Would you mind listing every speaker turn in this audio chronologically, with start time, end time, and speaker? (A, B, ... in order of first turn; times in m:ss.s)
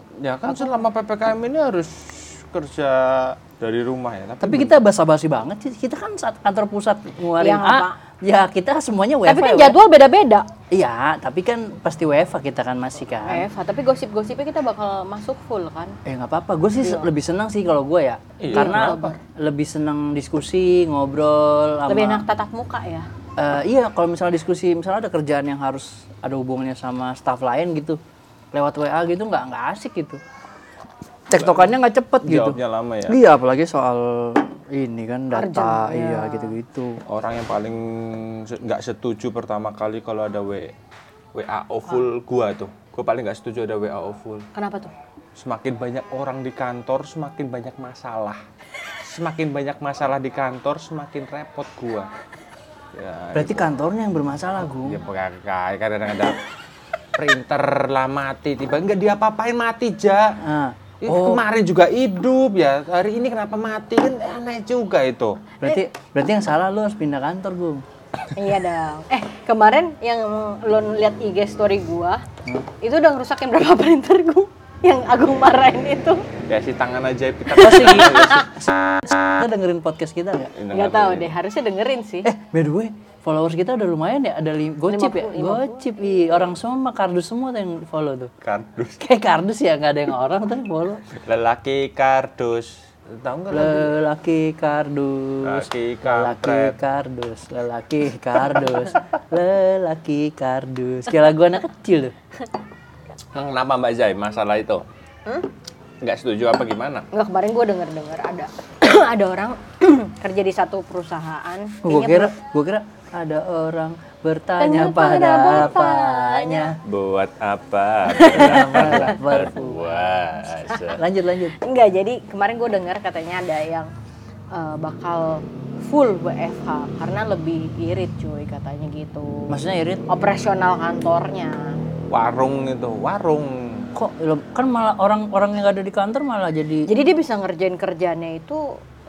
0:00.2-0:04.7 A
0:04.4-0:09.8 B
0:07.4-0:08.0 C
0:09.3-0:10.5 C
0:10.7-0:13.5 B
0:13.2-0:16.0 C
0:16.1-0:22.2 B
0:16.8-0:17.1 C
0:18.4-0:19.2 A
0:18.5-0:19.1 C
0:21.9-0:23.1 C
0:23.4-0:28.0 B
0:28.5-0:30.2 B
0:31.3-0:33.2 A
0:31.3-0:37.0 B
0:35.3-0:36.6 C
0:37.1-0:40.7 A
0:41.3-0:44.5 A
0:44.6-0:44.9 C
0:45.4-0:48.4 A
0:49.0-0:52.1 A
0:52.9-0:53.7 A
0:53.4-0:55.0 B
0:54.6-0:56.4 A
0:57.2-1:00.4 A
1:00.4-1:01.4 B
1:01.0-1:05.4 A
1:05.6-1:07.8 B
1:08.4-1:12.2 C
1:12.8-1:16.2 C
1:16.5-1:19.0 A
1:17.6-1:20.5 B
1:17.6-1:18.3 C
1:20.6-1:21.4 A
1:20.7-1:22.3 C
1:22.2-1:28.3 B
1:24.8-1:26.3 C
1:28.4-1:29.0 A
1:29.0-1:31.0 B
1:31.2-1:34.0 A
1:33.5-1:42.1 B
1:35.4-1:36.8 A
1:43.3-1:44.8 A
1:46.0-1:47.1 A
1:47.1-1:52.3 C
1:51.8-1:56.8 B
1:54.6-1:56.8 C
1:56.8-2:01.0 A
1:58.1-1:59.0 C
1:58.2-2:00.1 B
2:00.9-2:01.6 B
2:01.6-2:03.9 C
2:04.5-2:09.6 C
2:09.5-2:10.0 B
2:10.1-2:11.8 C
2:12.1-2:13.9 A
2:14.0-2:16.9 B
2:16.9-2:18.7 C